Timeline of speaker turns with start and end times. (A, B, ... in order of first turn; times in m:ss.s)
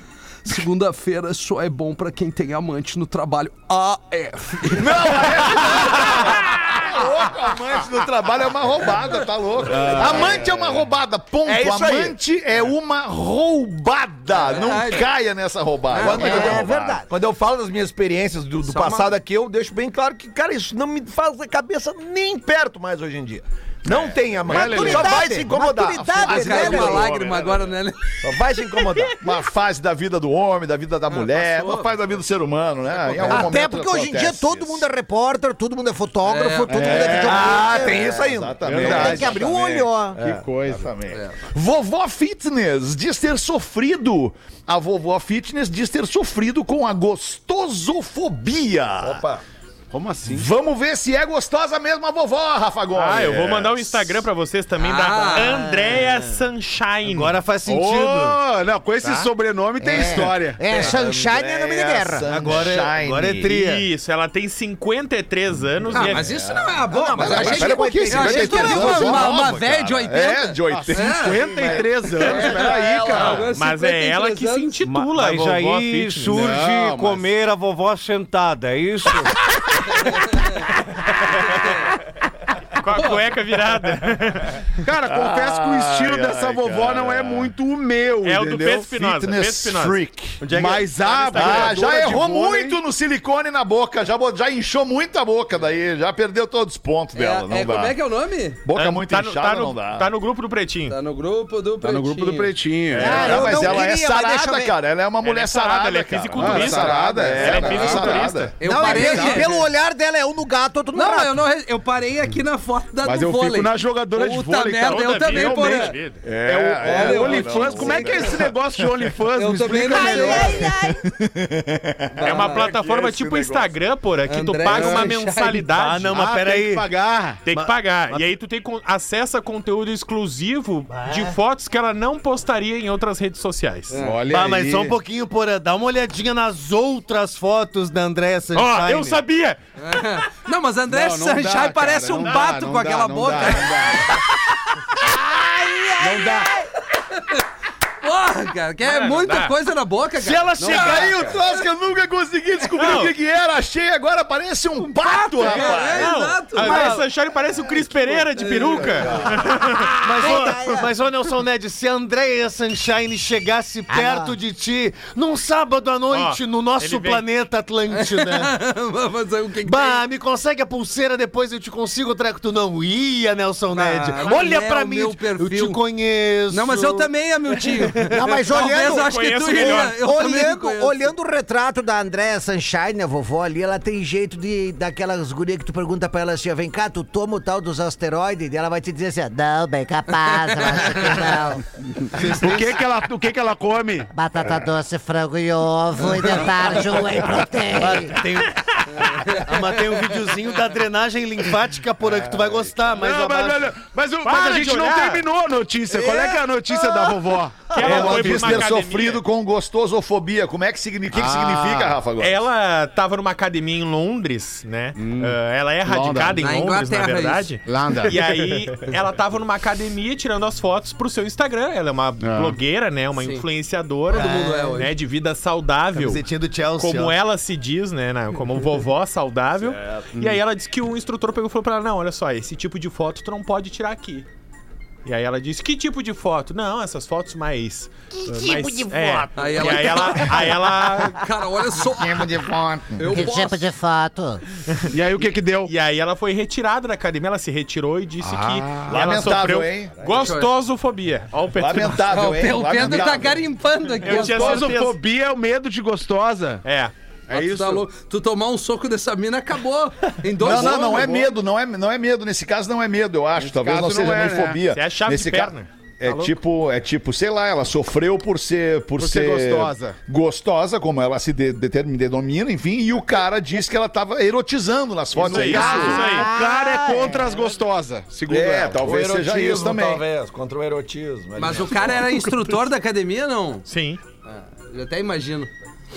0:00.4-0:06.3 A
0:04.7-0:17.0 B
0:09.7-0:10.5 C
0:09.7-0:10.8 D
0:11.4-0:12.2 D
0:14.4-0:15.1 A
0:15.9-0:16.3 A
0:16.0-0:27.0 D
0:16.0-0:17.0 E
0:18.6-0:19.1 A
0:23.9-0:24.9 B
0:24.5-0:25.2 C
0:24.5-0:27.1 E
0:26.0-0:27.8 B
0:26.2-0:28.3 A
0:28.2-0:29.2 D
0:29.1-0:34.8 B
0:31.1-0:31.9 A
0:33.0-0:33.3 A
0:33.2-0:38.2 E
0:36.2-0:37.3 A
0:36.7-0:37.7 C
0:37.2-0:39.3 D
0:37.7-0:49.2 B
0:38.6-0:39.4 C
0:38.8-0:40.2 E
0:40.2-0:40.9 C
0:41.1-0:41.4 A
0:49.0-0:49.4 D
0:49.9-0:50.5 C
0:50.2-0:54.2 B
0:52.9-0:57.4 F
0:54.8-0:55.7 A
0:57.0-0:58.4 G
0:57.6-1:00.6 C
0:59.0-0:59.3 F
0:59.8-1:02.3 E
1:00.7-1:03.5 B
1:02.2-1:03.8 G
1:03.4-1:06.4 F
1:05.9-1:11.5 A
1:06.1-1:13.4 B
1:06.9-1:09.4 E
1:10.7-1:13.5 C
1:12.2-1:14.8 A
1:13.1-1:16.5 F
1:14.8-1:19.4 G
1:16.3-1:17.3 C
1:22.8-1:24.7 F
1:22.9-1:23.2 A
1:24.8-1:28.9 C
1:25.0-1:27.5 B
1:28.2-1:31.8 F
1:28.9-1:30.4 B
1:30.4-1:32.8 C
1:31.3-1:38.0 B
1:37.1-1:38.6 A
1:38.6-1:40.1 B
1:38.7-1:41.0 F
1:40.9-1:42.6 A
1:41.8-1:43.6 C
1:43.0-1:44.7 E
1:43.0-1:49.1 B
1:43.0-1:43.3 F
1:45.2-1:48.5 F
1:46.3-1:49.4 C
1:48.6-1:49.6 A
1:48.6-1:51.4 E
1:50.9-1:56.0 A
1:53.0-2:00.7 C
1:54.8-1:56.2 F
1:56.2-1:59.1 B
1:56.8-1:58.2 A
1:59.3-2:00.6 A
1:59.8-2:01.0 E
2:00.7-2:03.7 B
2:02.1-2:02.7 A
2:02.2-2:06.4 F
2:04.3-2:05.6 A
2:04.7-2:05.1 C
2:05.7-2:08.3 G
2:06.1-2:07.4 C
2:07.4-2:14.0 F
2:11.0-2:11.3 G
2:13.9-2:14.2 A
2:14.0-2:15.0 C
2:14.2-2:19.2 G
2:18.5-2:19.6 F
2:19.8-2:24.1 A
2:20.9-2:24.2 C
2:25.0-2:26.7 E
2:26.0-2:26.5 C
2:27.1-2:27.4 A
2:28.0-2:31.2 A
2:28.8-2:29.5 F
2:30.4-2:31.3 G
2:30.6-2:36.1 B
2:30.6-2:31.3 C
2:32.7-2:33.1 F
2:35.1-2:37.0 A
2:35.4-2:40.2 F
2:36.6-2:37.0 E
2:38.3-2:39.2 A
2:40.0-2:48.6 G
2:40.1-2:40.9 E
2:43.9-2:44.3 E
2:46.1-2:47.3 F
2:47.9-2:50.0 A
2:49.6-2:57.1 G
2:53.7-2:55.8 A
2:56.5-3:01.1 A
2:57.6-2:58.1 G
2:58.1-3:12.6 E
2:58.8-3:00.0 F
3:12.0-3:14.1 C
3:14.1-3:18.2 E
3:17.7-3:23.7 G
3:22.8-3:28.7 C
3:24.2-3:25.2 F
3:25.9-3:27.2 E
3:27.7-3:29.2 F
3:27.8-3:32.4 B
3:31.1-3:32.0 C
3:32.2-3:54.3 F
3:35.0-3:36.4 C
3:36.4-3:37.6 A
3:37.6-3:38.5 C
3:42.2-3:42.6 C
3:43.2-3:43.4 A
3:44.1-3:44.9 A
3:44.1-3:44.7 G
3:45.9-3:47.1 G
3:50.1-3:50.4 C
3:55.0-4:01.2 F
3:59.4-4:02.4 A
4:01.9-4:03.1 B
4:03.0-4:03.7 A
4:03.1-4:04.4 E
4:04.9-4:05.7 C
4:05.7-4:12.2 F
4:08.2-4:09.0 C
4:08.9-4:10.0 B
4:10.0-4:10.5 A
4:11.5-4:13.4 B
4:12.1-4:14.8 A
4:14.0-4:15.0 F
4:14.0-4:16.6 C
4:16.6-4:16.9 F
4:17.3-4:17.8 C
4:17.3-4:21.3 A
4:20.4-4:21.3 C
4:20.4-4:36.0 B
4:23.4-4:24.6 C
4:24.7-4:25.7 F
4:26.0-4:26.3 C
4:29.0-4:30.0 C
4:35.2-4:36.3 F
4:35.2-4:38.8 C
4:35.4-4:37.5 E
4:38.3-4:42.3 D
4:38.3-4:40.0 B
4:41.4-4:43.6 A
4:43.6-4:44.0 F
4:44.2-4:45.5 A